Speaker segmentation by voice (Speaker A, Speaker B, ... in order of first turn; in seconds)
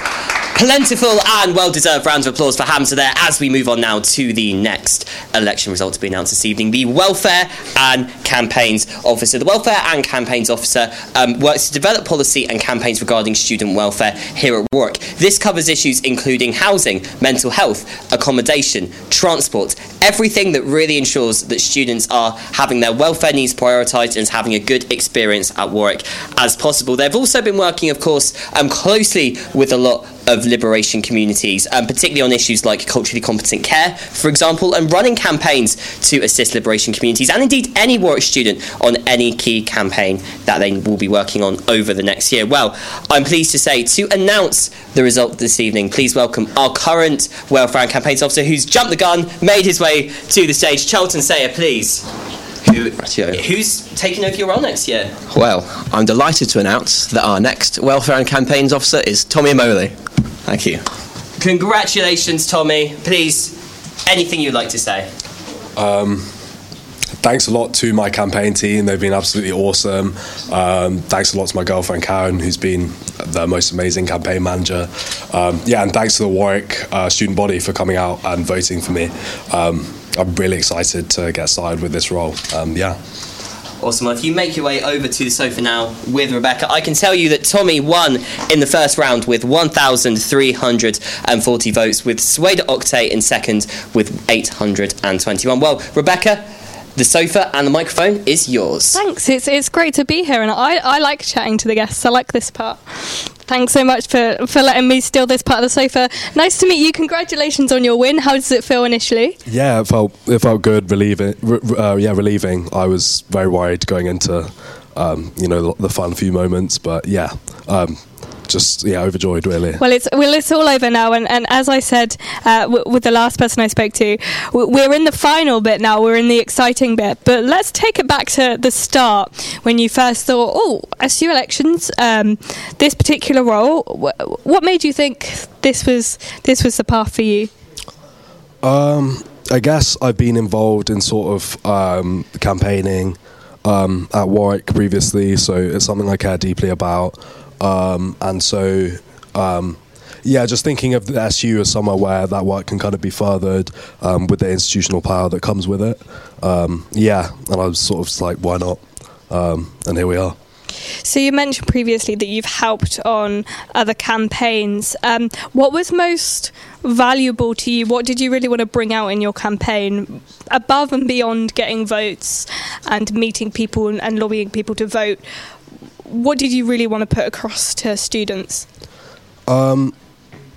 Speaker A: 0.5-52.0, 52.7-55.1, 61.4-63.5, 64.0-65.1, 83.8-96.4, 97.0-99.0
Speaker B: 53.0-53.4, 55.3-59.9, 60.5-60.8
Speaker C: 65.8-66.3, 67.2-83.0, 109.5-119.8, 138.6-160.3, 179.5-179.9
Speaker D: 98.9-109.4, 119.8-137.5, 161.0-175.2, 176.1-178.7